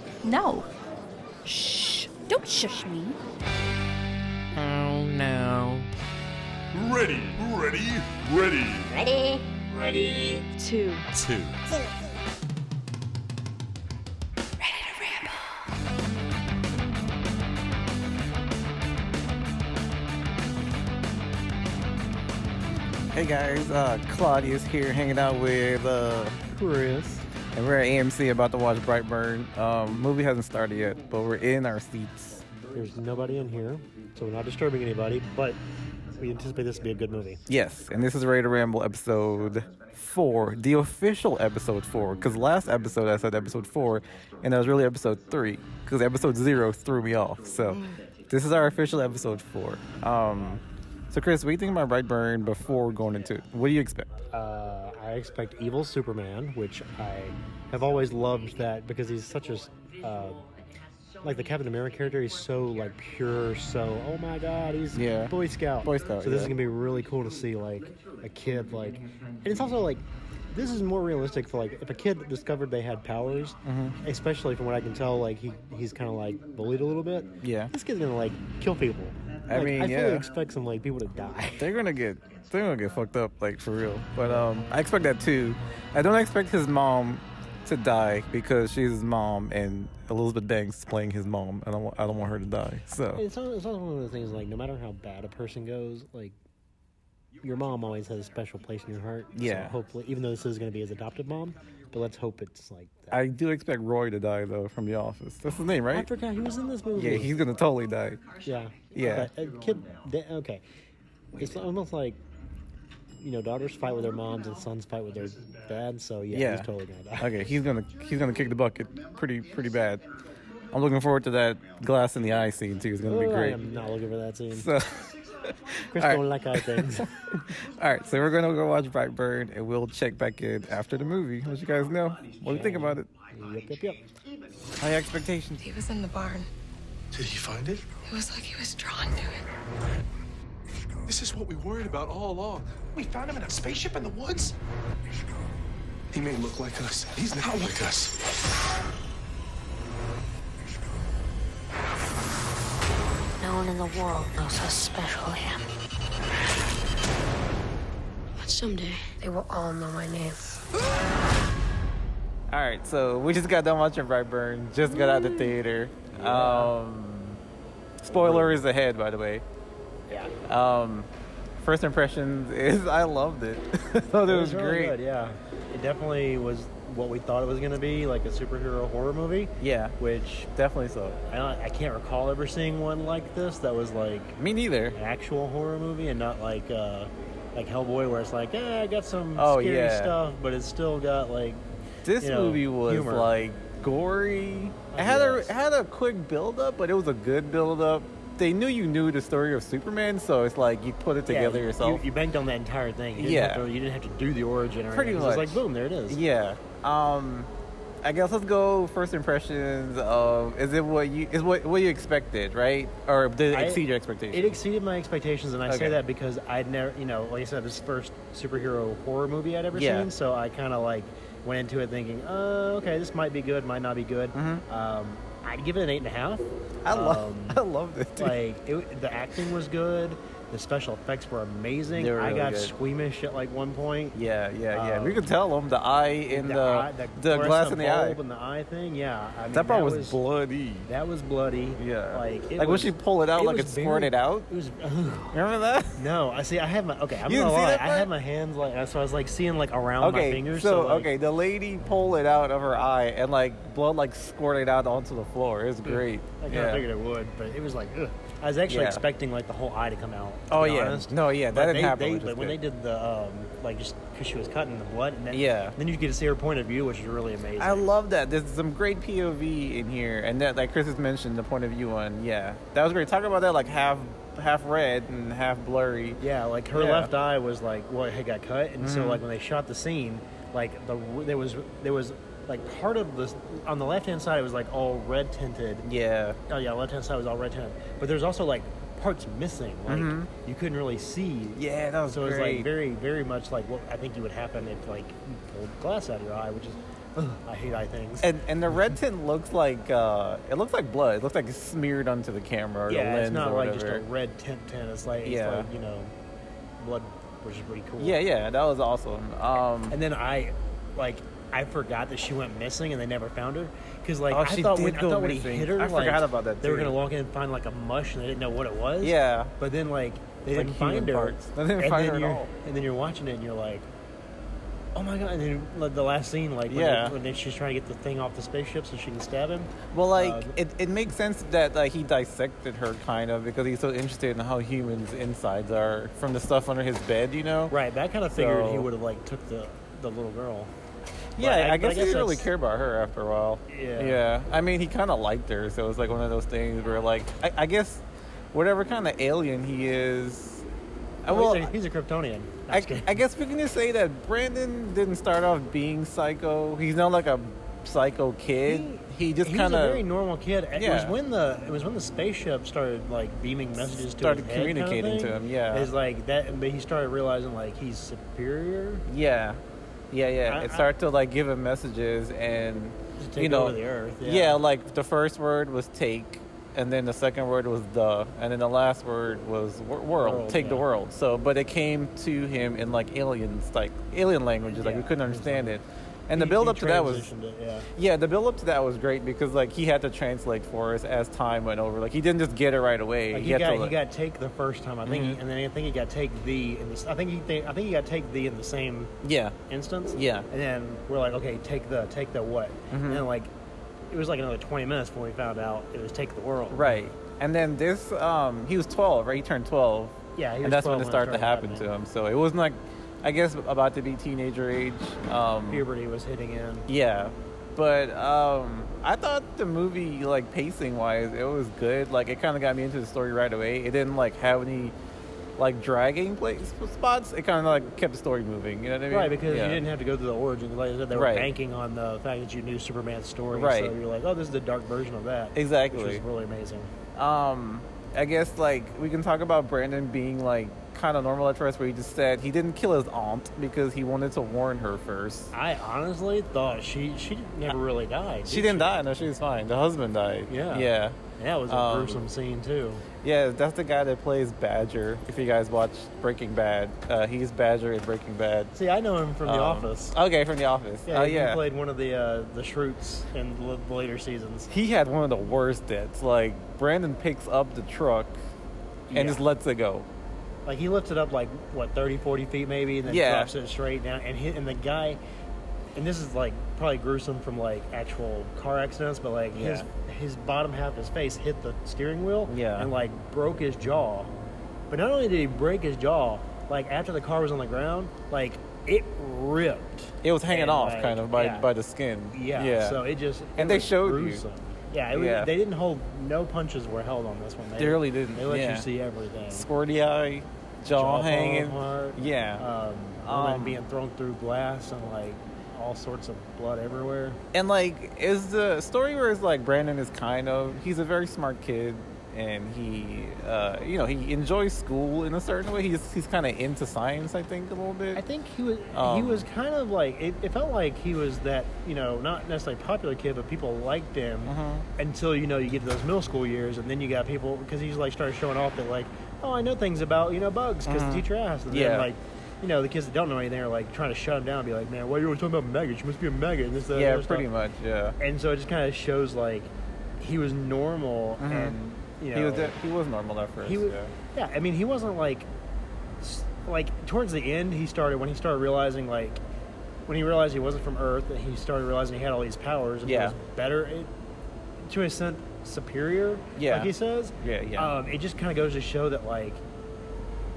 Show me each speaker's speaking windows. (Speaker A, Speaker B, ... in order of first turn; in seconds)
Speaker A: 0.2-0.7, 1.4-3.2, 10.5-11.1, 14.6-15.7
Speaker B: 4.5-5.9, 23.1-26.5, 27.5-32.5, 37.5-54.1, 64.9-66.5, 73.6-74.0, 77.4-77.7, 79.5-80.3, 81.5-93.2, 99.3-99.7, 103.1-106.1, 106.9-108.3, 108.9-109.3, 116.3-120.1, 120.7-123.6, 124.5-133.1, 134.8-135.6, 162.5-167.4, 168.0-169.4, 170.4-174.9, 179.6-179.9, 180.5-181.2, 184.4-185.0, 189.3-190.2, 192.0-202.0, 203.2-203.7, 204.9-207.5, 208.0-214.6, 215.7-216.0, 219.7-220.1, 224.3-224.6, 226.8-228.4, 231.9-232.7, 234.1-238.2, 239.5-240.9, 241.8-244.5, 245.3-246.0, 247.2-248.1, 250.0-256.9, 258.7-259.0, 260.5-262.6, 265.3-265.8, 267.6-276.2, 276.7-277.1, 278.8-279.2, 285.8-286.4, 289.9-290.3, 291.5-292.7, 298.2-304.0, 305.2-305.7, 308.0-310.0, 314.3-317.0, 319.0-319.5, 320.5-322.5, 326.7-327.1, 329.9-337.7, 338.3-338.9, 341.4-350.6, 351.2-351.7, 352.7-360.1, 360.7-361.2, 363.8-365.9, 369.1-387.3, 387.9-393.9, 395.0-395.4, 399.2-399.6, 400.1-400.5, 402.9-403.3, 406.7-415.8, 416.9-424.9, 425.6-429.8, 431.1-431.5, 433.5-433.9, 435.5-436.2, 437.1-445.5, 448.5-451.2, 451.7-452.2, 453.2-458.7, 459.4-461.6, 464.7-468.4, 469.1-470.1, 473.1-473.5, 479.5-479.9, 482.5-482.9, 490.2-493.0, 493.6-494.4, 495.1-495.5, 497.8-498.9, 499.5-502.6, 503.2-503.8, 507.5-518.2, 518.9-519.5, 524.5-524.8, 530.9-532.1, 536.9-538.2, 541.4-541.8, 542.3-544.1, 553.0-553.4, 556.6-557.9
Speaker C: 6.7-9.0, 9.9-10.4, 11.1-11.6, 137.1-137.9, 141.0-144.5, 146.1-148.2
Speaker D: 26.5-27.2, 32.7-35.6, 36.2-37.4, 54.3-60.4, 61.2-81.7, 84.2-84.5, 93.1-96.3, 97.4-103.2, 105.9-107.4, 108.4-110.6, 111.4-112.2, 113.2-117.4, 123.1-124.7, 125.9-127.1, 132.4-134.1, 166.1-166.7, 168.1-168.6, 170.1-170.3, 174.3-180.5, 181.3-184.4, 184.9-191.6, 192.2-193.3, 194.9-195.5, 201.2-206.2, 213.5-227.6, 228.2-234.2, 234.7-235.3, 236.3-240.2, 240.8-245.4, 245.9-251.1, 255.8-267.9, 276.2-285.9, 286.5-298.9, 302.9-306.1, 306.8-308.2, 309.9-323.9, 324.9-330.6, 337.7-340.7, 341.4-342.5, 343.7-344.2, 351.3-353.2, 358.6-369.1, 370.4-370.9, 373.2-374.6, 380.2-380.9, 384.7-385.8, 386.3-387.9, 393.3-399.1, 399.7-403.5, 404.1-407.1, 410.4-411.9, 415.7-416.9, 429.1-436.9, 445.5-448.9, 450.5-453.1, 458.7-460.1, 461.1-464.7, 469.1-469.4, 470.6-475.2, 475.9-484.3, 484.9-491.7, 492.3-499.7, 500.9-507.4, 518.1-537.5, 538.2-542.8, 543.6-545.5, 546.2-549.4, 550.1-554.1, 554.8-559.6
Speaker E: 135.6-136.5, 138.1-139.4
Speaker F: 153.4-155.7, 158.4-160.6